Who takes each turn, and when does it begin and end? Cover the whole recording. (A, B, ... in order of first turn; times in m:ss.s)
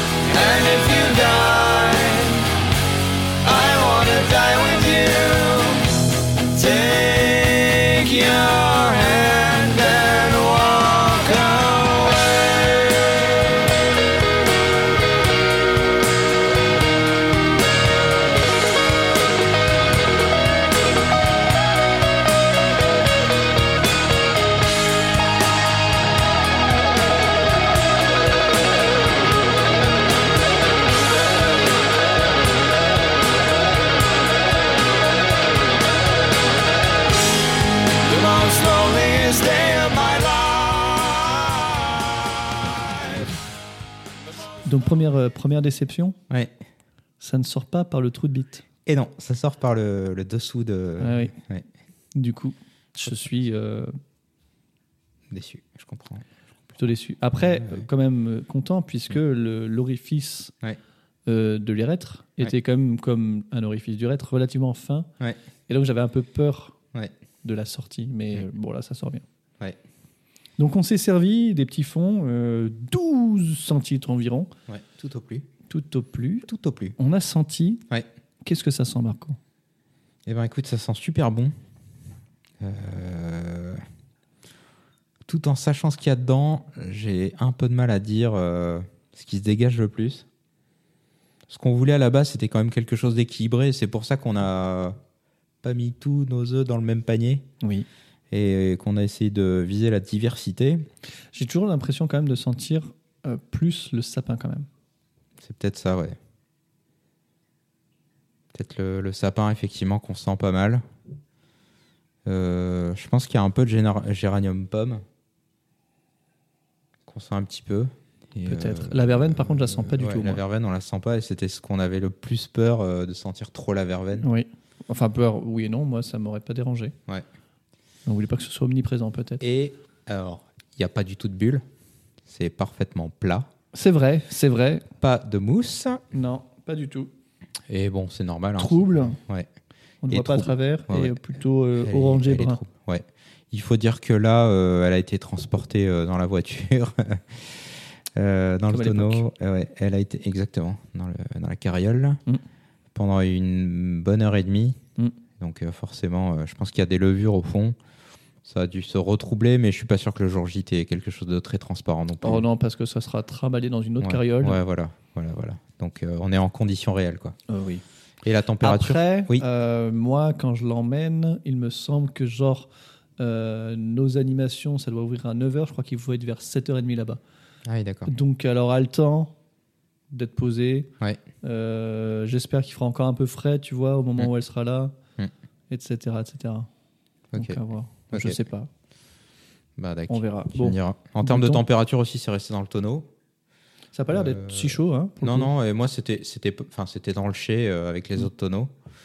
0:00.2-0:02.5 A
0:03.4-0:05.9 A
0:06.5-0:13.2 A
0:38.0-0:43.3 A
0:44.6-0:46.2 B
0:47.2-0:48.6 B
0:48.8-0:51.6 C
0:51.0-0:51.3 B
0:52.1-0:54.0 B
0:55.3-0:56.8 C
0:56.8-1:00.5 B
0:57.5-0:57.9 C
1:01.2-1:05.1 B
1:05.7-1:06.7 B
1:07.4-1:09.2 B
1:10.6-1:14.5 B
1:14.7-1:15.5 C
1:15.7-1:17.8 B
1:16.4-1:17.0 C
1:18.4-1:19.4 B
1:20.2-1:21.5 C
1:22.6-1:23.8 C
1:25.2-1:30.2 C
1:31.5-1:35.0 C
1:35.6-1:37.5 C
1:37.6-1:37.9 B
1:38.3-1:40.9 C
1:41.3-1:44.7 B
1:45.4-1:46.2 C
1:48.5-1:50.8 C
1:52.2-1:55.0 C
1:57.0-2:04.3 C
1:58.4-2:00.4 B
2:04.2-2:06.9 B
2:08.0-2:09.4 B
2:09.4-2:11.6 C
2:12.2-2:13.5 C
2:13.7-2:14.8 B
2:15.0-2:16.0 C
2:16.1-2:17.1 B
2:17.7-2:19.5 C
2:18.6-2:19.2 B
2:20.0-2:22.6 B
2:20.1-2:32.2 C
2:28.7-2:29.2 B
2:32.9-2:34.8 C
2:35.4-2:37.8 C
2:38.4-2:42.4 C
2:42.2-2:44.6 B
2:44.0-2:47.4 C
2:47.5-2:47.8 B
2:48.2-2:49.4 C
2:48.6-2:57.2 B
2:57.6-2:58.1 C
2:58.0-2:59.3 B
3:00.1-3:00.9 B
3:01.4-3:04.9 B
3:05.7-3:06.7 B
3:07.3-3:08.4 C
3:07.3-3:08.7 B
3:09.8-3:13.1 C
3:10.1-3:11.6 B
3:13.9-3:15.5 B
3:14.1-3:18.7 C